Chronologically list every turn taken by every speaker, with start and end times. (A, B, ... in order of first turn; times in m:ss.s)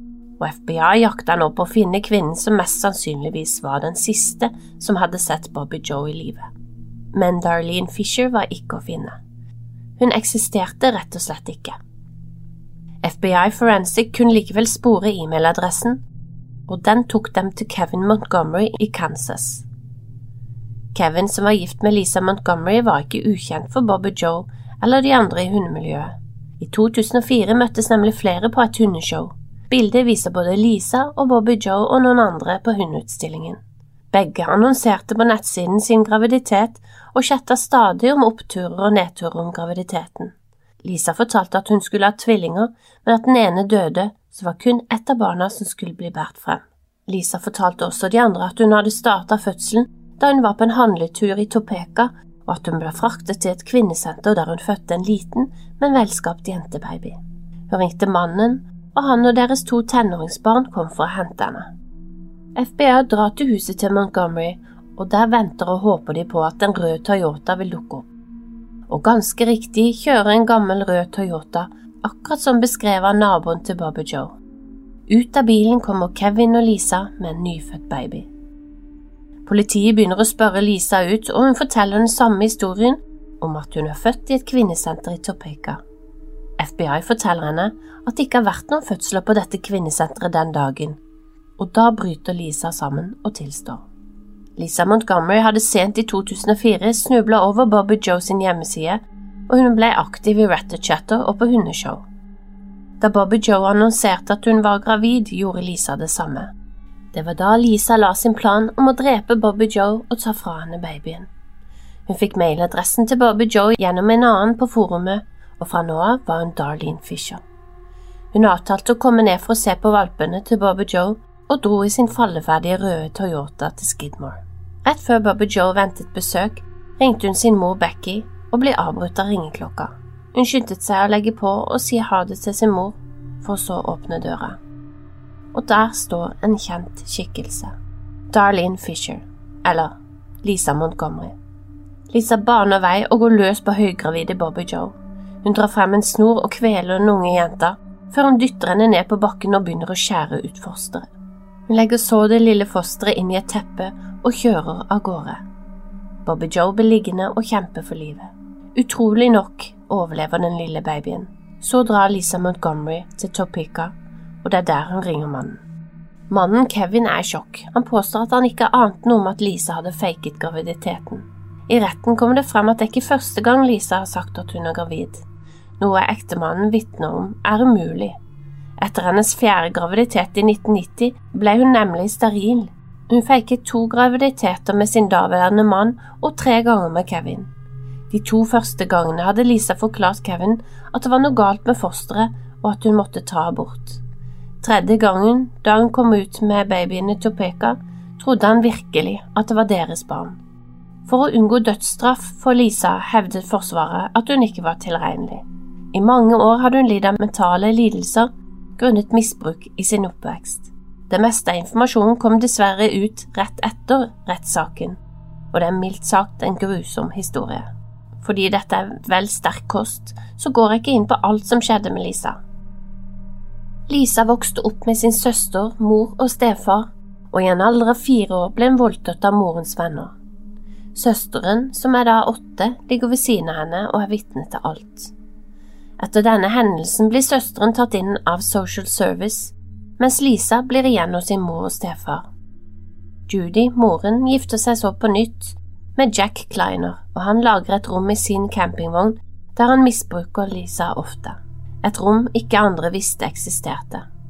0:00.4-0:06.5 A
0:07.1-0:09.2 A
0:10.0-0:11.8 A
0:13.0-0:16.0 A
0:16.7-0:19.6 A
0:20.9-0:33.6 A
0:34.1-0:57.2 A
0:57.7-1:01.7 A
1:02.5-1:08.1 A
1:08.9-1:14.4 A
1:15.1-1:18.3 A
1:19.4-1:25.8 A
1:26.6-1:31.0 A
1:31.6-1:33.8 A
1:34.6-1:42.0 A
1:43.0-1:46.5 A
1:47.1-1:51.3 A
1:52.1-1:57.4 A
1:58.3-2:14.6 A
2:15.5-2:17.7 A
2:18.3-2:21.3 A
2:22.1-2:31.1 A
2:31.7-2:35.4 A
2:36.2-2:45.6 A
2:46.3-2:55.2 A
2:55.8-2:58.2 A
2:58.8-3:07.5 A
3:08.1-3:14.0 A
3:14.6-3:20.4 A
3:21.0-3:35.0 A
3:35.5-3:37.7 A
3:38.2-3:42.4 A
3:43.9-3:50.1 A
3:50.9-3:55.1 A
3:56.0-4:02.2 A
4:03.3-4:14.0 A